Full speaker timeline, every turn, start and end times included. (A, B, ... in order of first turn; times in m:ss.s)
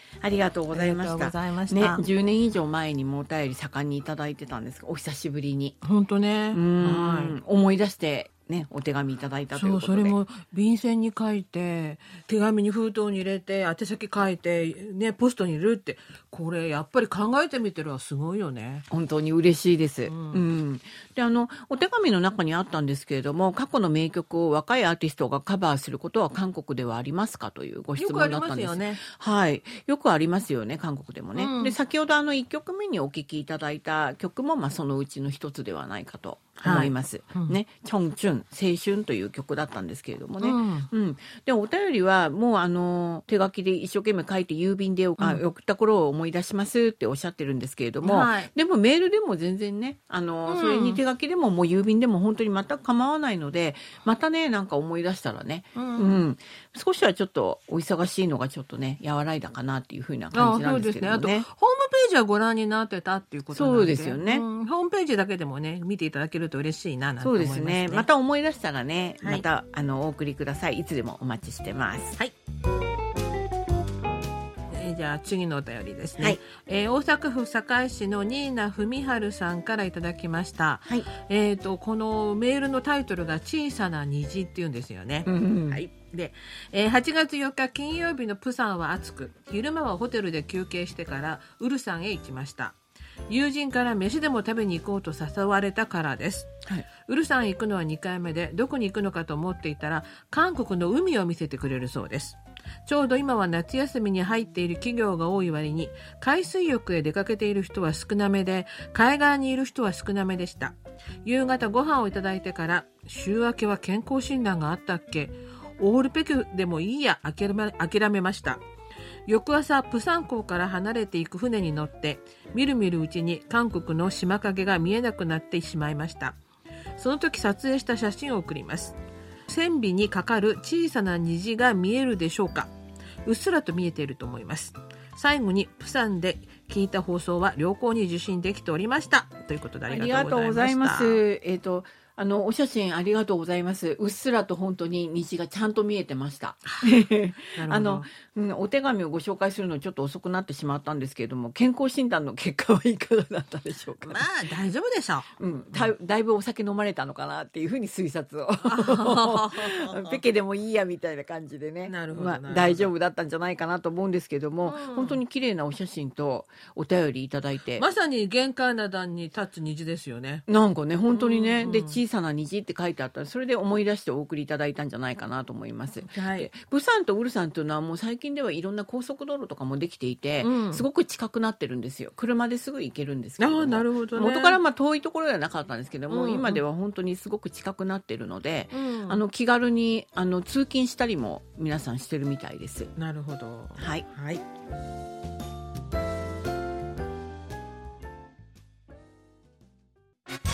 0:00.2-0:05.8 A
0:00.7-0:02.0 B
0:05.8-0:07.4 B
0:06.5-0:10.2 A
0:09.6-0:18.9 B
0:18.9-1:01.5 A
0:20.1-0:20.4 B
0:28.0-0:29.0 B
0:31.4-0:31.8 B
0:36.6-0:37.6 B
0:40.4-0:40.9 B
0:48.0-0:48.5 B
0:50.5-0:51.0 B
0:55.8-0:56.2 B
1:00.3-1:08.1 B
1:03.5-1:04.4 A
1:07.2-1:12.2 A
1:14.7-1:58.6 B
1:25.3-1:25.8 A
1:59.3-2:06.4 B
2:07.0-2:12.7 B
2:13.2-2:21.2 B
2:19.9-2:34.3 A
2:27.5-2:28.1 B
2:34.0-2:35.9 B
2:35.4-2:47.9 A
2:38.6-2:40.2 B
2:41.9-2:42.9 B
2:44.7-2:45.2 B
2:47.8-2:50.4 B
2:50.5-3:12.9 A
2:51.1-2:52.0 B
2:56.1-2:56.5 B
3:00.4-3:00.8 B
3:03.4-3:04.6 B
3:06.1-3:06.6 B
3:08.7-3:09.2 B
3:13.0-3:14.4 B
3:13.8-3:14.1 A